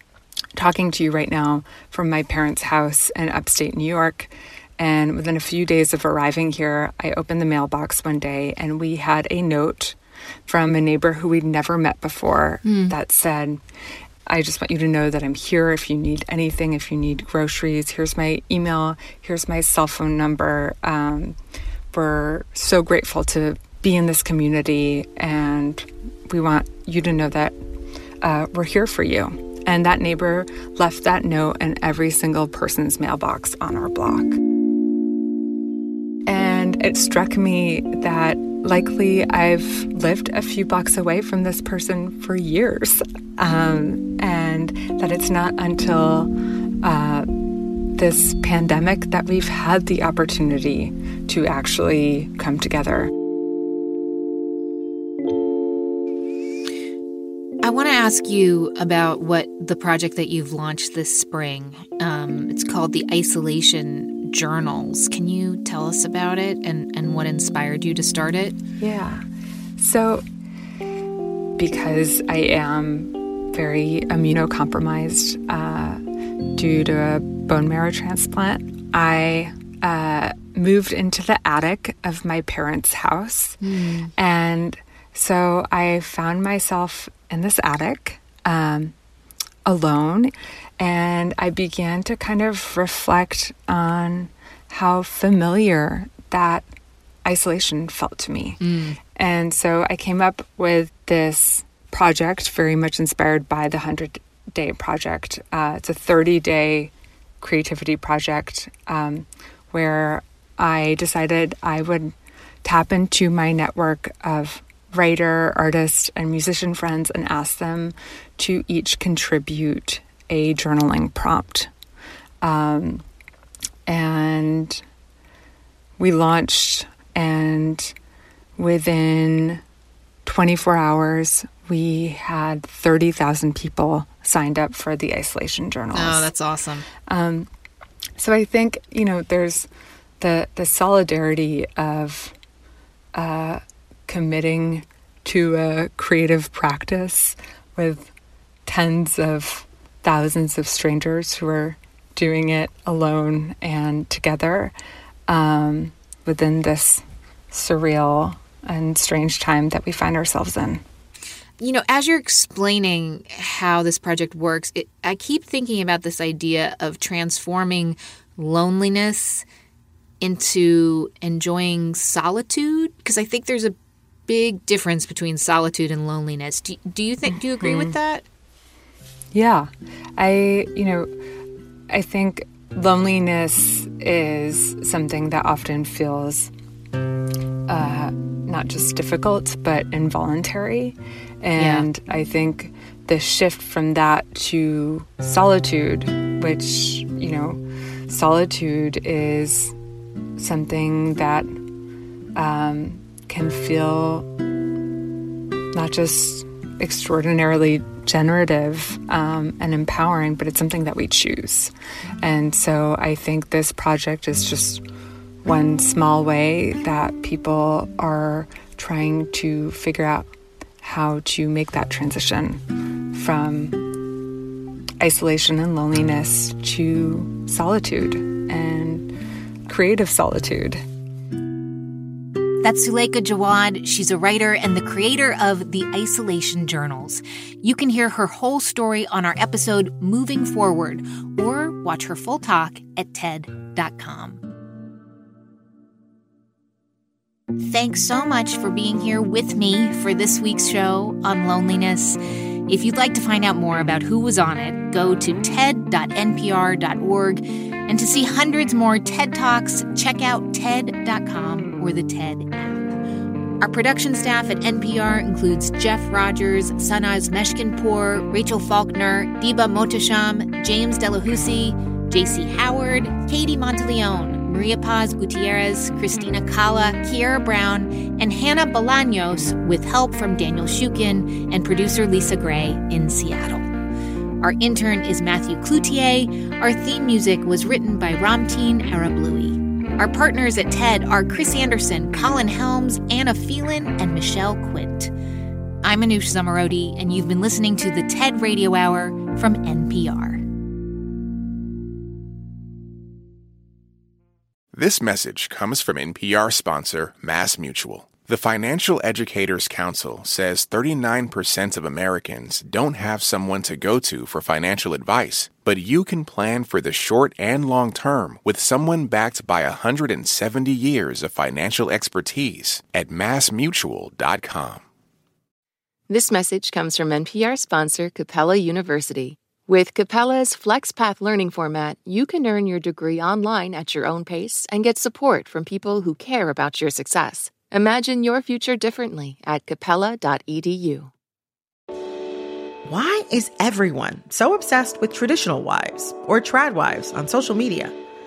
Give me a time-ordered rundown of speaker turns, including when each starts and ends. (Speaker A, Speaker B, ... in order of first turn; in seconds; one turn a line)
Speaker A: 0.6-13.6
Speaker B: 12.6-13.0
Speaker A: 14.3-21.4
Speaker A: 21.9-27.6
Speaker A: 28.2-34.4
Speaker A: 36.3-46.3
Speaker A: 46.8-47.3
Speaker A: 48.0-53.1
Speaker B: 57.6-68.6
Speaker A: 68.8-69.2
Speaker A: 69.8-70.2
Speaker A: 71.6-76.0
Speaker A: 76.5-83.6
Speaker B: 83.6-84.1
Speaker A: 84.2-88.9
Speaker A: 89.7-96.7
Speaker A: 97.2-98.6
Speaker B: 98.6-99.0
Speaker A: 99.2-121.7
Speaker A: 122.4-123.0
Speaker A: 123.9-124.8
Speaker A: 126.0-127.9
Speaker A: 128.6-129.6
Speaker A: 130.2-136.3
Speaker B: 135.9-136.9
Speaker A: 137.1-137.5
Speaker A: 138.2-139.7
Speaker A: 140.2-142.3
Speaker A: 143.2-148.1
Speaker A: 148.7-154.7
Speaker A: 155.3-160.8
Speaker B: 161.6-169.4
Speaker B: 170.2-173.8
Speaker B: 174.3-178.2
Speaker A: 177.3-178.0
Speaker A: 179.3-181.1
Speaker A: 181.9-186.5
Speaker A: 187.7-199.7
Speaker B: 191.6-191.9
Speaker A: 200.4-201.6
Speaker A: 202.4-204.3
Speaker A: 205.7-214.8
Speaker A: 215.4-220.3
Speaker A: 220.8-223.8
Speaker A: 225.0-229.1
Speaker A: 229.7-230.8
Speaker B: 232.6-244.4
Speaker B: 247.6-262.9
Speaker B: 263.6-283.7
Speaker B: 284.4-295.1
Speaker B: 295.8-300.4
Speaker C: 304.7-324.9
Speaker D: 326.1-341.1
Speaker E: 342.9-347.9